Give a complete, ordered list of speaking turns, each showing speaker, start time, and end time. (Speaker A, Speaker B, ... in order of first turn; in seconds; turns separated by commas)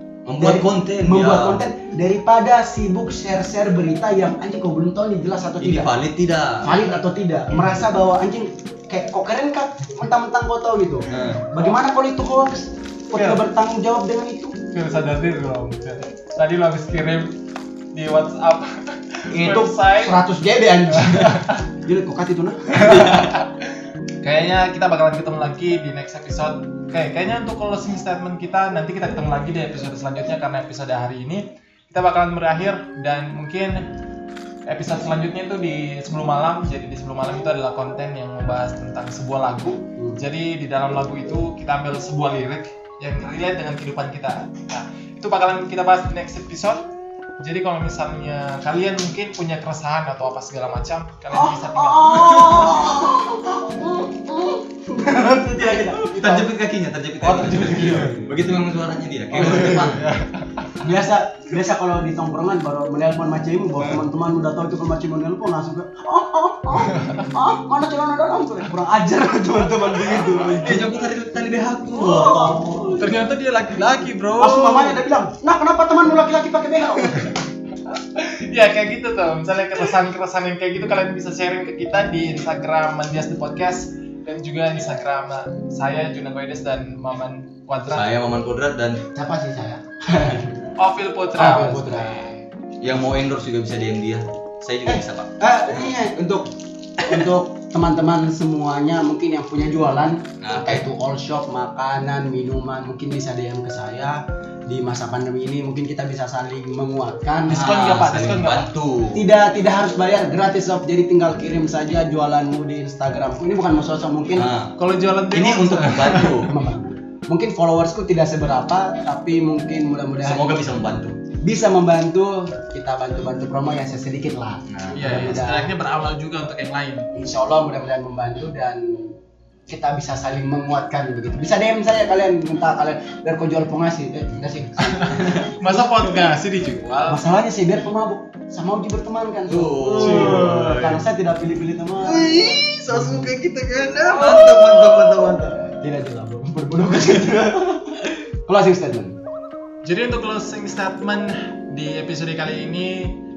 Speaker A: 0.3-1.6, Speaker B: 0.4-5.9, Speaker A: 5.6-6.8, Speaker B: 6.6-14.6, Speaker A: 11.1-11.4, Speaker C: 13.2-13.4, Speaker C: 14.7-17.3, Speaker C: 17.9-20.2, Speaker B: 19.3-23.3, Speaker C: 21.0-21.6, Speaker C: 22.7-33.9, Speaker C: 34.7-46.8, Speaker C: 47.4-52.9, Speaker B: 51.3-56.4, Speaker A: 55.9-60.1, Speaker C: 57.2-58.1, Speaker B: 57.5-58.5, Speaker B: 59.4-60.0, Speaker C: 59.4-60.7, Speaker B: 60.8-70.9, Speaker C: 66.9-67.3, Speaker A: 70.5-73.0, Speaker B: 71.9-72.9, Speaker C: 73.0-75.0, Speaker B: 74.4-77.3, Speaker C: 77.9-88.1, Speaker A: 87.9-89.0, Speaker B: 89.1-90.6, Speaker C: 90.8-92.5, Speaker B: 91.4-92.2, Speaker A: 92.8-95.9, Speaker B: 94.9-96.5, Speaker B: 97.0-107.7, Speaker A: 100.4-100.8, Speaker C: 107.5-108.7, Speaker A: 107.5-109.3, Speaker B: 109.1-114.5, Speaker A: 114.3-114.7, Speaker C: 114.8-116.4, Speaker A: 115.3-116.5, Speaker B: 116.4-120.8, Speaker A: 120.2-121.2, Speaker B: 121.4-125.7, Speaker A: 124.7-125.4, Speaker C: 124.9-127.1, Speaker B: 127.2-129.2, Speaker B: 129.7-136.3, Speaker C: 134.8-137.2, Speaker A: 135.1-135.5, Speaker B: 137.1-142.3, Speaker A: 139.5-141.0, Speaker C: 140.0-140.6, Speaker A: 142.0-145.6, Speaker B: 142.9-143.3, Speaker B: 144.1-149.2, Speaker C: 149.8-153.1